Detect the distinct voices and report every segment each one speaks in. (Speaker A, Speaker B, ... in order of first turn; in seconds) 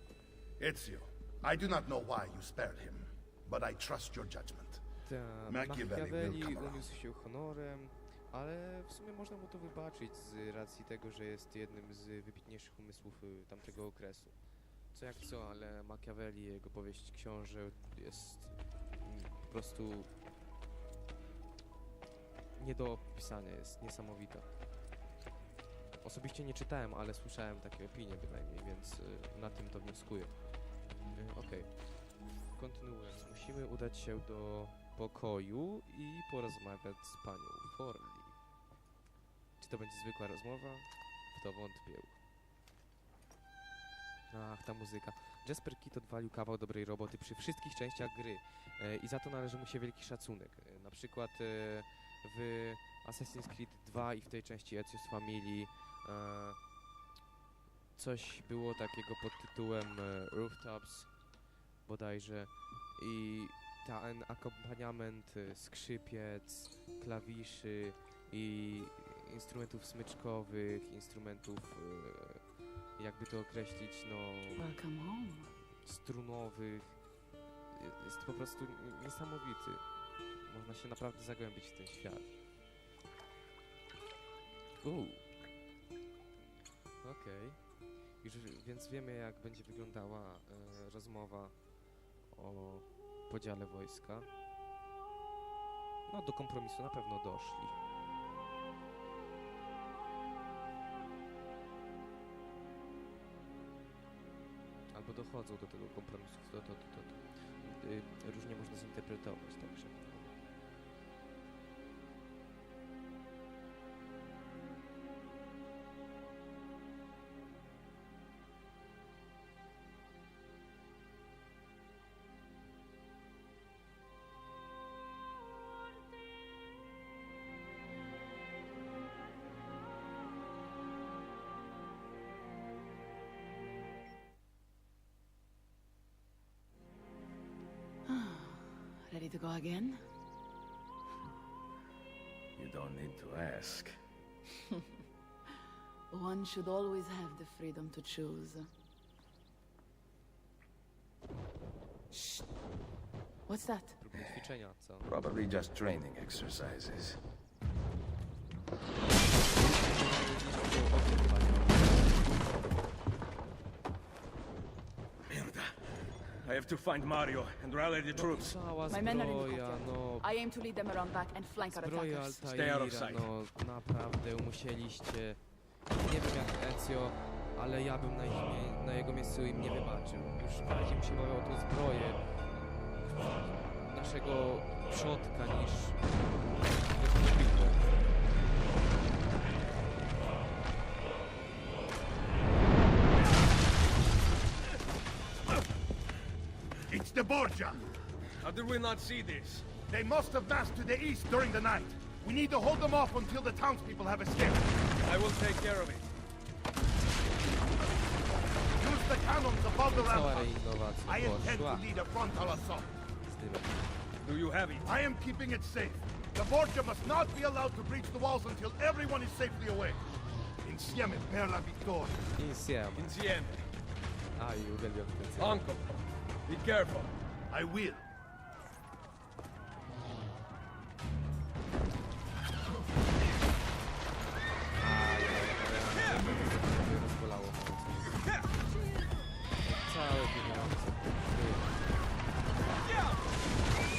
Speaker A: 0.6-4.8, 5.5-6.9, 196.9-197.9, 199.8-204.7, 208.8-212.9, 214.8-220.0, 220.6-222.3, 227.5-228.0
Speaker B: 5.0-14.4, 14.9-20.1, 22.6-24.5, 26.0-38.4, 39.6-42.2, 44.3-56.6, 57.9-74.6, 75.8-77.1, 77.7-82.3, 84.8-85.2, 87.0-91.6, 92.3-94.3, 96.1-97.8, 104.9-110.3, 154.0-155.1, 159.3-162.2, 168.1-170.2, 171.6-188.1, 209.8-211.8, 213.2-213.8, 222.3-223.1, 224.3-225.6, 234.8-238.3, 239.6-241.8
Speaker C: 74.6-75.5, 138.1-140.0, 146.1-148.7, 152.1-152.4, 153.5-154.0, 168.9-172.4
Speaker D: 142.6-143.9, 155.1-157.2, 165.3-168.6, 172.4-173.3, 198.4-199.7, 205.0-206.1, 214.2-214.9, 222.9-223.7, 225.4-227.1